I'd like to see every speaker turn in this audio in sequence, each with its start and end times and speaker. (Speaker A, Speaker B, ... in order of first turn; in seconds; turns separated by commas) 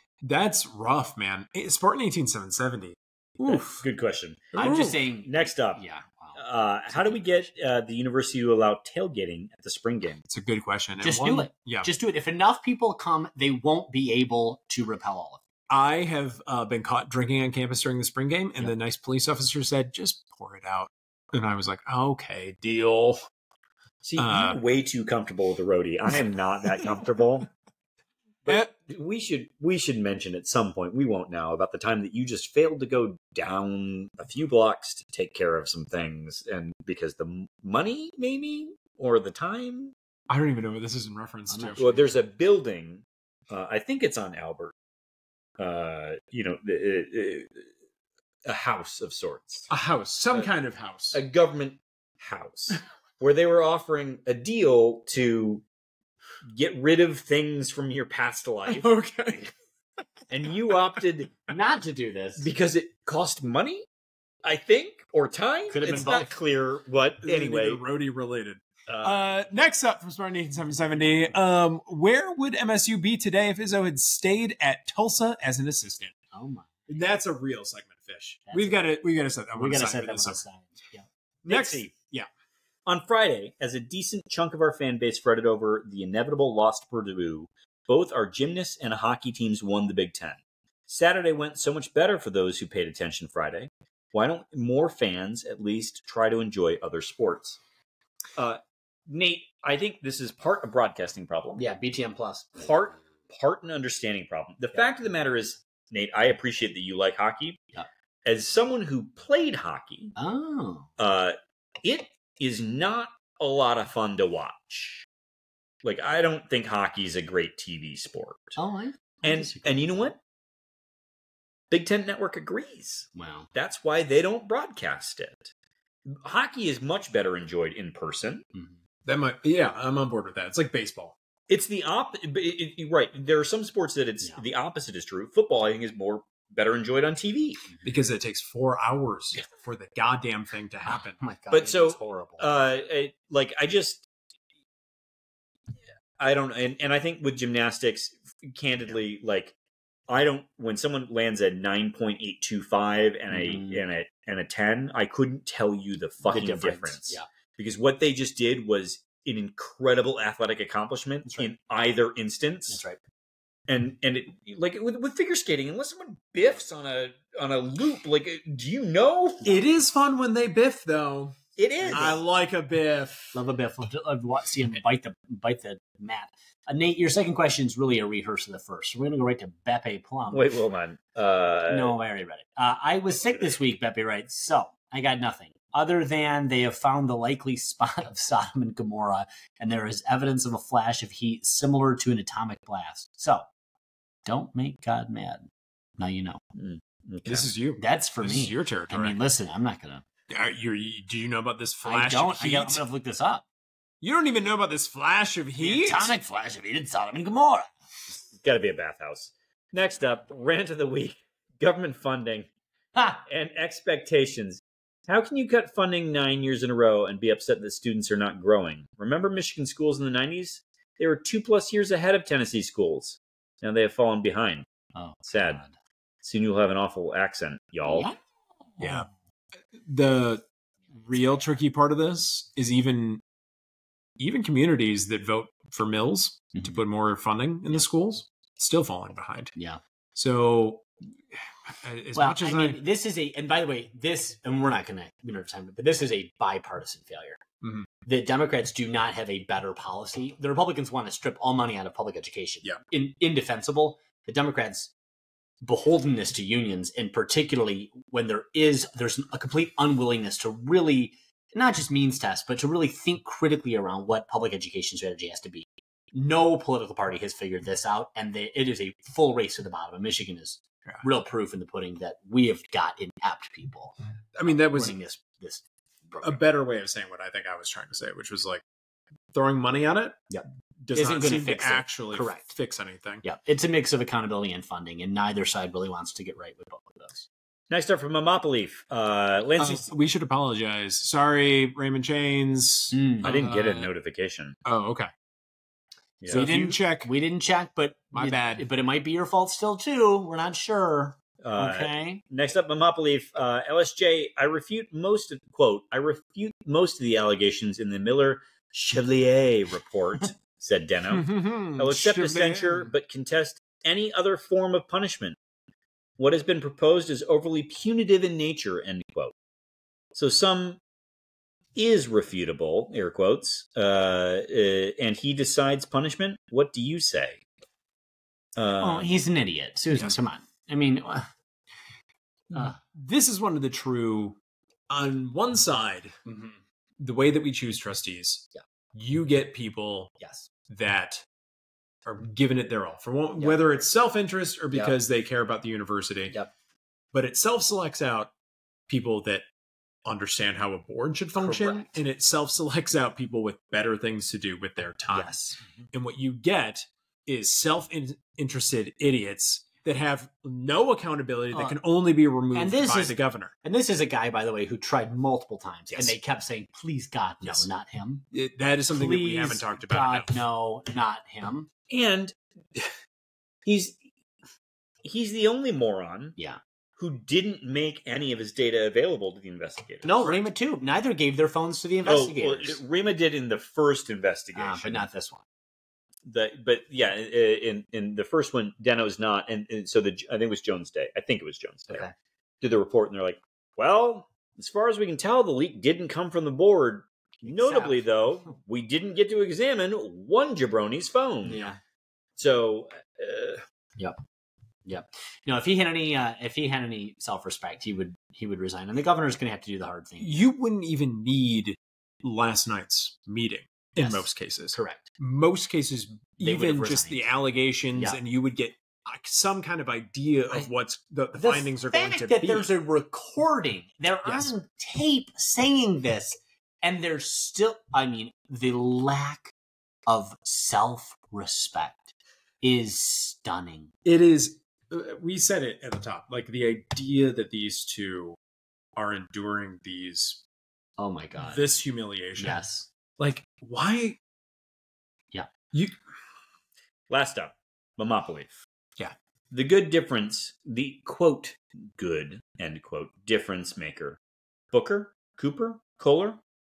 Speaker A: 0.2-3.6, Speaker B: 3.4-3.8, Speaker C: 3.6-5.8, Speaker B: 4.5-7.4, Speaker A: 4.6-4.9, Speaker C: 6.3-10.2, Speaker A: 10.3-11.9, Speaker B: 11.0-15.4, Speaker A: 15.7-23.2, Speaker C: 24.0-27.5, Speaker A: 24.2-24.6, Speaker C: 28.4-39.9, Speaker A: 40.3-41.9, Speaker B: 41.5-42.0, Speaker C: 41.8-44.7, Speaker C: 45.6-47.7, Speaker C: 48.4-49.7, Speaker A: 49.7-51.2, Speaker C: 51.1-55.6, Speaker C: 56.5-58.9, Speaker A: 58.7-59.5, Speaker C: 60.3-61.5, Speaker B: 61.5-62.5, Speaker C: 62.4-63.9, Speaker C: 64.4-67.8, Speaker B: 65.7-66.3, Speaker A: 65.8-66.2, Speaker A: 67.2-76.1, Speaker C: 68.9-69.3, Speaker B: 76.3-76.9, Speaker A: 76.9-80.4, Speaker B: 78.5-78.9, Speaker B: 79.5-81.0, Speaker A: 81.4-82.3, Speaker C: 81.5-81.9, Speaker C: 82.8-97.6, Speaker C: 98.4-101.6, Speaker B: 101.5-102.6, Speaker C: 102.6-107.6, Speaker C: 108.2-110.1, Speaker B: 110.2-110.9, Speaker C: 111.0-115.0, Speaker C: 115.8-118.6, Speaker B: 118.6-120.0, Speaker C: 119.2-120.2, Speaker C: 121.7-125.5, Speaker B: 123.1-123.5, Speaker C: 126.0-128.4, Speaker A: 129.0-131.2, Speaker C: 131.5-137.7, Speaker A: 137.8-141.2, Speaker B: 140.9-142.5, Speaker C: 141.5-144.1, Speaker C: 146.2-149.5, Speaker C: 150.1-162.8, Speaker B: 153.3-153.8, Speaker B: 156.2-157.2, Speaker B: 161.2-161.5, Speaker B: 162.7-163.0, Speaker C: 163.7-169.6, Speaker A: 169.4-171.4, Speaker C: 171.6-172.2, Speaker B: 171.8-172.2, Speaker A: 171.9-173.3, Speaker B: 173.3-180.5, Speaker C: 180.3-181.9, Speaker B: 181.7-193.5, Speaker B: 194.2-196.4, Speaker C: 196.6-197.5, Speaker A: 197.2-199.2, Speaker B: 197.8-200.0, Speaker A: 200.3-202.8, Speaker B: 201.8-203.4, Speaker A: 204.0-206.1, Speaker B: 205.6-207.7, Speaker C: 208.3-212.5, Speaker B: 212.9-213.2, Speaker C: 213.2-224.7, Speaker B: 224.9-225.7, Speaker C: 225.3-225.6, Speaker C: 226.2-228.1, Speaker B: 227.8-228.2, Speaker A: 228.8-229.1, Speaker A: 229.8-230.4, Speaker A: 231.0-233.2, Speaker A: 234.2-239.5, Speaker A: 240.1-242.8, Speaker B: 242.1-247.4, Speaker A: 247.6-247.9, Speaker B: 248.0-254.9, Speaker B: 255.6-273.9, Speaker A: 274.3-275.0, Speaker B: 274.5-276.4, Speaker A: 276.2-278.6, Speaker A: 279.3-280.2, Speaker B: 280.3-282.5, Speaker A: 280.8-283.2, Speaker B: 283.2-287.3, Speaker C: 287.7-289.9, Speaker A: 289.6-293.9, Speaker B: 292.9-293.3, Speaker C: 293.2-294.6, Speaker A: 294.6-295.1, Speaker C: 296.2-296.5, Speaker B: 296.3-302.2, Speaker A: 296.3-297.1, Speaker A: 298.1-298.6, Speaker C: 301.4-315.4, Speaker A: 311.1-312.9, Speaker C: 316.2-319.3, Speaker C: 320.1-320.8, Speaker C: 321.7-327.4, Speaker C: 328.6-329.1, Speaker B: 328.8-331.3, Speaker A: 332.5-334.4, Speaker A: 334.9-340.1, Speaker B: 340.2-340.5, Speaker A: 340.7-341.2, Speaker A: 342.0-346.4, Speaker B: 344.7-345.0, Speaker A: 347.1-348.3, Speaker A: 348.9-349.5, Speaker A: 350.0-355.3, Speaker B: 351.4-351.9, Speaker B: 355.1-355.6, Speaker A: 355.9-363.5, Speaker B: 361.5-361.8, Speaker B: 362.5-368.2, Speaker A: 365.9-366.2, Speaker A: 367.4-367.7, Speaker A: 368.3-370.4, Speaker B: 368.9-371.7, Speaker C: 371.9-372.9, Speaker C: 373.6-374.0, Speaker C: 375.0-376.4, Speaker C: 377.0-380.4, Speaker B: 380.0-382.8, Speaker C: 382.0-385.1, Speaker B: 384.5-385.4, Speaker C: 386.2-392.1, Speaker C: 392.6-401.7, Speaker B: 397.4-398.0, Speaker B: 401.4-401.8, Speaker C: 402.4-403.6, Speaker B: 404.9-410.4, Speaker A: 410.2-422.7, Speaker B: 414.0-415.0, Speaker B: 416.4-417.2, Speaker B: 421.3-429.5, Speaker A: 424.2-424.5, Speaker B: 430.1-433.9, Speaker A: 434.0-438.4, Speaker A: 438.9-440.4, Speaker B: 441.0-441.6, Speaker A: 441.4-442.6, Speaker B: 442.4-442.9, Speaker A: 443.2-444.2, Speaker C: 447.1-448.6, Speaker C: 449.5-454.2, Speaker C: 454.7-456.4